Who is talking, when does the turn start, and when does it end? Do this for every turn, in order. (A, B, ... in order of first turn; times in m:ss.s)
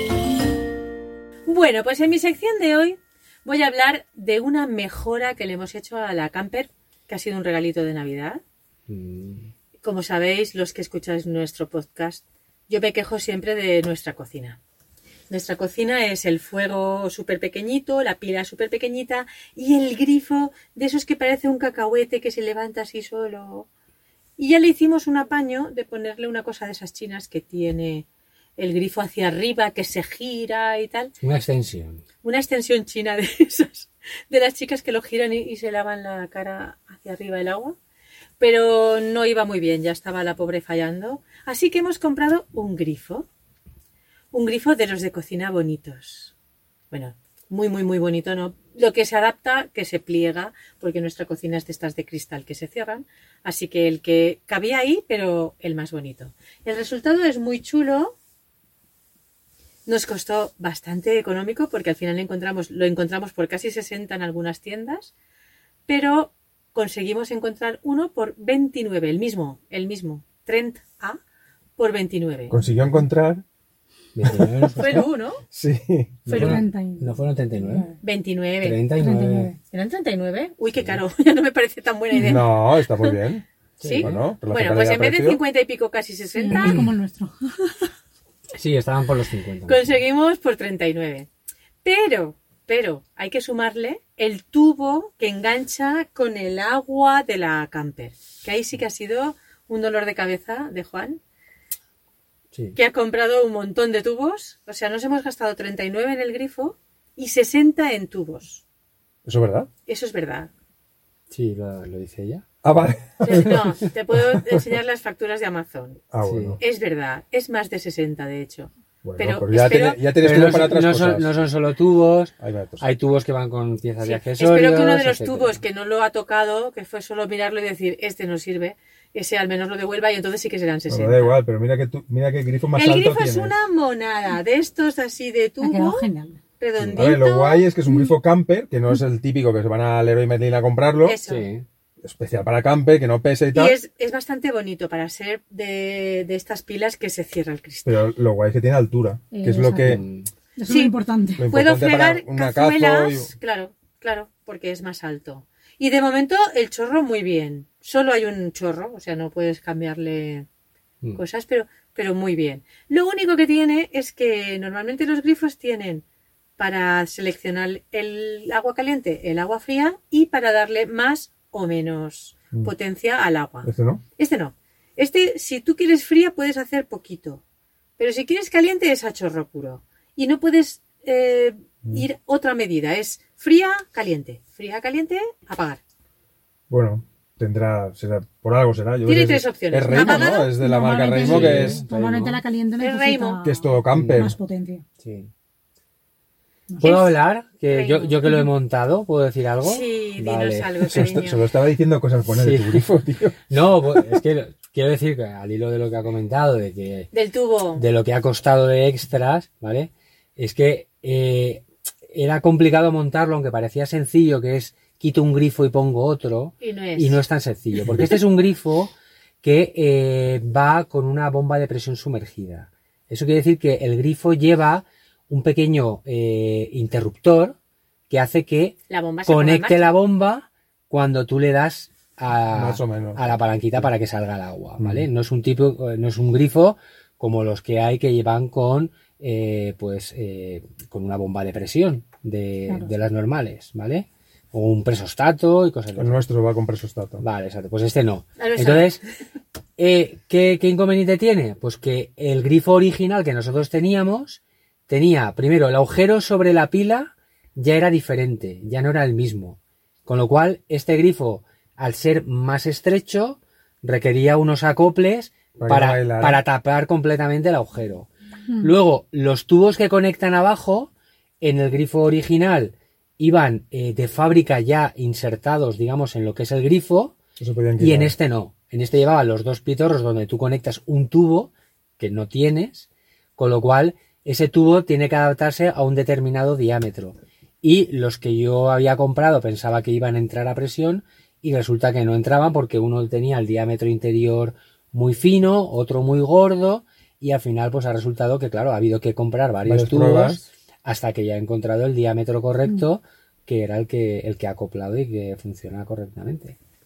0:01.4-0:08.4 A
0:08.9-0:09.5 B
0:09.8-0:14.6 A
0:15.3-0:23.7 A
0:24.4-0:28.0 A
0:28.6-0:31.1 A
0:31.2-0:32.0 B
0:32.2-0:37.8 A
0:38.4-0:43.2 A
0:44.3-0:46.3 A
0:46.9-0:58.2 A
0:59.8-1:05.1 A
1:05.9-1:11.2 A
1:11.8-1:12.6 A
1:12.5-1:13.4 C
1:14.1-1:15.1 B
1:14.2-1:14.6 C
1:14.8-1:15.4 A
1:15.5-1:16.6 C
1:16.2-1:17.9 B
1:16.3-1:16.6 A
1:16.3-1:18.0 D
1:18.0-1:18.8 A
1:18.6-1:19.5 B
1:19.0-1:19.6 D
1:19.7-1:23.2 A
1:22.1-1:22.4 D
1:22.2-1:23.4 C
1:23.8-1:24.2 B
1:23.8-1:26.8 A
1:24.0-1:25.4 C
1:26.3-1:27.9 D
1:28.6-1:29.8 B
1:29.6-1:31.3 A
1:31.8-1:41.2 A
1:42.8-1:48.6 A
1:49.2-1:49.7 C
1:49.9-1:50.5 A
1:51.3-1:52.4 B
1:52.6-1:54.6 C
1:53.2-1:56.0 A
1:56.1-1:56.6 C
1:56.2-1:56.6 B
1:56.6-2:00.0 A
1:59.0-2:01.3 C
2:00.2-2:05.6 B
2:02.4-2:02.8 C
2:04.0-2:11.3 A
2:10.9-2:13.5 C
2:12.8-2:16.1 A
2:15.6-2:16.4 D
2:16.6-2:17.6 A
2:16.8-2:21.2 C
2:21.0-2:21.5 A
2:21.3-2:21.6 B
2:22.0-2:23.8 C
2:23.5-2:28.0 A
2:27.8-2:30.0 C
2:29.3-2:30.0 D
2:29.8-2:30.3 B
2:30.6-2:31.4 D
2:30.6-2:31.0 A
2:31.4-2:33.3 C
2:31.5-2:40.5 A
2:41.2-2:46.0 A
2:46.6-2:57.4 A
2:53.6-2:54.0 C
2:58.0-3:05.8 A
3:06.7-3:11.8 C
3:09.0-3:10.5 A
3:09.9-3:14.8 D
3:11.2-3:12.4 B
3:12.8-3:13.4 A
3:13.4-3:14.4 C
3:13.9-3:14.3 B
3:15.0-3:15.3 B
3:16.7-3:17.0 D
3:16.8-3:18.2 A
3:16.8-3:21.2 B
3:19.6-3:21.4 A
3:20.9-3:23.4 C
3:22.3-3:22.9 B
3:23.5-3:27.1 B
3:23.9-3:24.2 C
3:27.1-3:27.8 A
3:27.8-3:47.6 B
3:36.6-3:37.2 A
3:48.1-4:06.2 B
3:48.9-3:50.0 A
3:52.5-3:53.3 C
3:54.8-3:55.1 C
4:02.7-4:02.9 D
4:06.0-4:07.2 C
4:07.2-4:09.0 B
4:08.4-4:09.0 A
4:09.8-4:28.1 B
4:25.6-4:26.4 C
4:28.6-4:30.9 B
4:31.4-4:37.2 B
4:37.4-4:38.1 C
4:37.8-5:06.6 B
4:59.6-5:00.4 C